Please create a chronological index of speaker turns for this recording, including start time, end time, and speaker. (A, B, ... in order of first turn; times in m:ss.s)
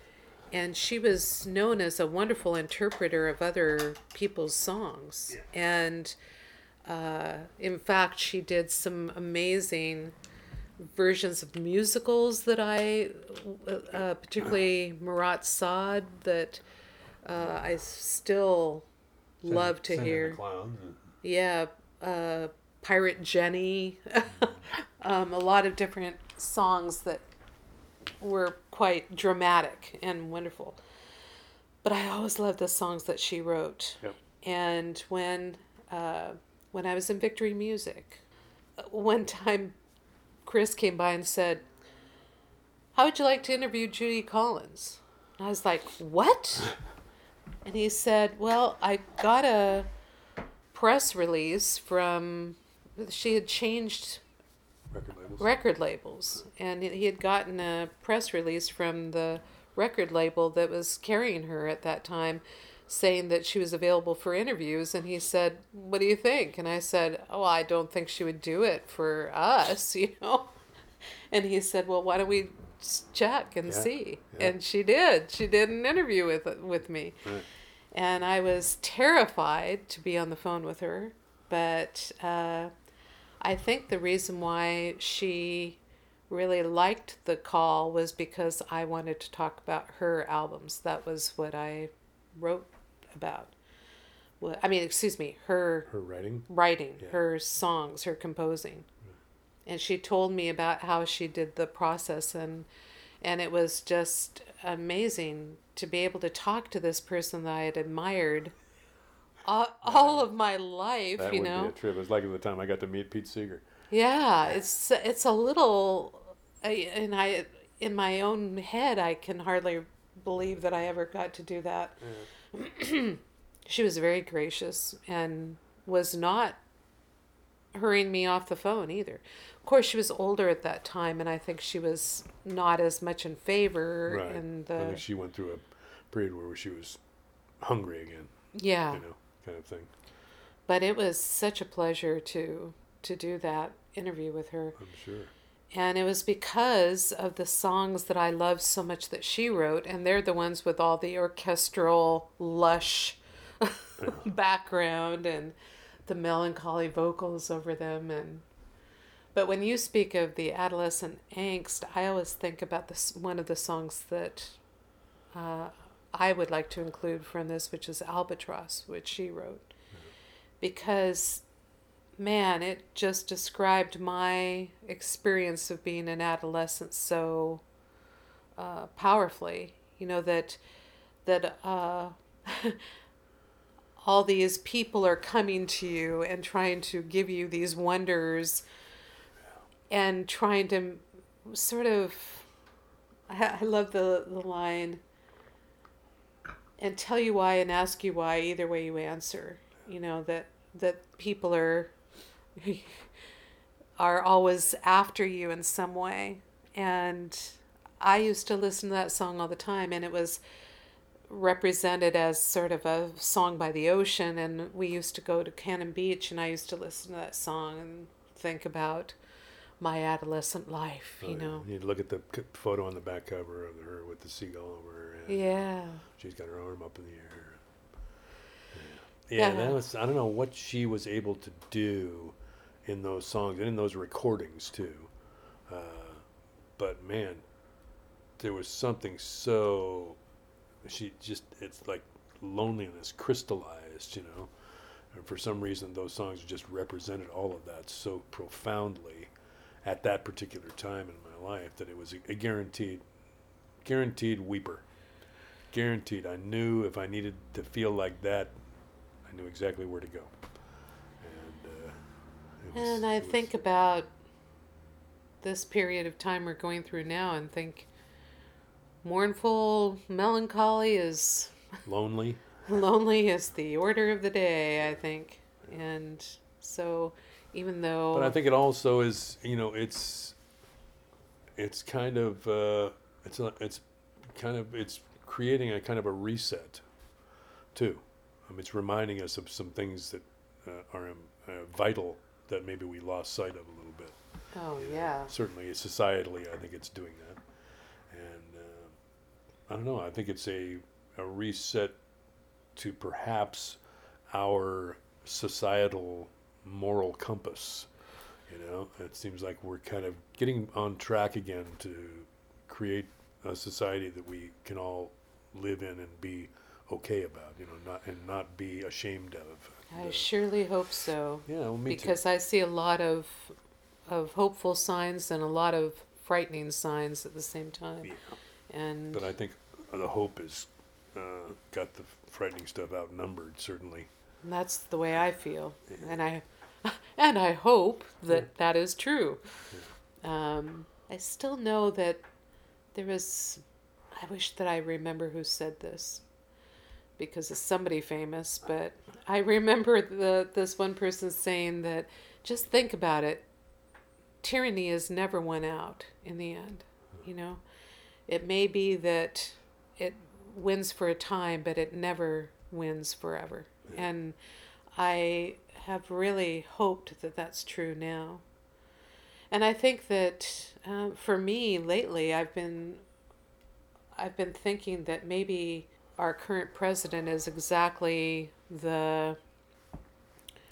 0:00.5-0:06.2 A
0:06.8-0:10.2 A
0:10.8-0:16.6 A
0:17.2-0:18.9 A
0:19.4-0:20.4 A
0:19.5-0:21.0 B
0:21.2-0:27.2 A
0:28.2-0:30.8 A
0:31.8-0:38.2 A
0:38.8-0:39.8 A
0:40.4-0:41.6 A
0:42.9-0:46.7 A
0:47.6-0:49.9 A
0:50.7-0:54.2 A
0:54.9-0:55.5 B
0:55.4-1:17.3 A
1:13.7-1:14.5 B
1:17.9-1:22.7 A
1:23.4-1:33.6 A
1:34.4-1:35.9 A
1:35.9-1:36.5 B
1:36.5-1:38.9 A
1:39.7-1:42.7 A
1:43.2-1:48.5 A
1:49.4-1:51.8 A
1:49.8-1:50.3 B
1:51.2-1:53.6 B
1:53.9-2:06.6 A
2:02.0-2:02.3 B
2:07.7-2:15.0 A
2:14.1-2:17.0 B
2:17.6-2:18.3 B
2:18.5-2:19.0 A
2:18.9-2:19.9 B
2:20.7-2:24.8 A
2:24.8-2:25.3 B
2:25.7-2:35.6 A
2:36.1-2:38.4 A
2:39.3-2:44.6 A
2:45.3-2:49.7 A
2:50.6-2:51.4 A
2:52.2-2:57.6 A
2:58.6-3:00.6 A
3:01.2-3:02.8 A
3:04.0-3:08.6 A
3:09.9-3:12.5 A
3:13.3-3:15.0 A
3:16.8-3:21.9 A
3:22.6-3:23.1 A
3:24.0-3:30.4 A
3:31.3-3:39.2 A
3:39.8-3:41.7 A
3:41.2-3:47.6 B
3:45.3-3:46.0 A
3:48.7-3:55.1 B
3:49.4-3:49.8 A
3:55.7-3:56.2 B
3:56.8-3:57.4 B
3:58.4-4:00.2 B
4:00.8-4:04.5 B
4:05.1-4:09.3 B
4:09.8-4:13.0 B
4:13.8-4:14.8 B
4:15.7-4:18.5 B
4:19.2-4:20.3 B
4:21.2-4:22.0 B
4:22.6-4:23.6 B
4:22.7-4:24.1 A
4:25.4-4:27.9 A
4:29.0-4:31.6 A
4:31.9-4:32.6 B
4:32.7-4:38.4 A
4:38.1-4:40.4 B
4:41.6-4:46.8 B
4:47.8-4:54.2 B
4:54.5-4:55.3 A
4:54.8-4:57.4 B
4:58.1-4:59.0 B
4:59.7-5:02.0 B
5:02.8-5:03.8 B
5:04.3-5:07.9 B
5:08.5-5:20.3 B
5:19.9-5:23.6 A
5:21.5-5:22.2 B
5:24.1-5:28.1 A
5:28.0-5:28.4 B
5:28.7-5:29.3 A
5:29.1-5:34.1 B
5:34.4-5:39.4 A
5:40.2-5:42.2 A
5:42.9-5:46.2 A
5:47.2-5:53.5 A
5:54.4-5:57.6 A
5:58.3-6:04.4 A
6:05.0-6:08.4 A
6:09.5-6:13.0 A
6:14.2-6:19.4 A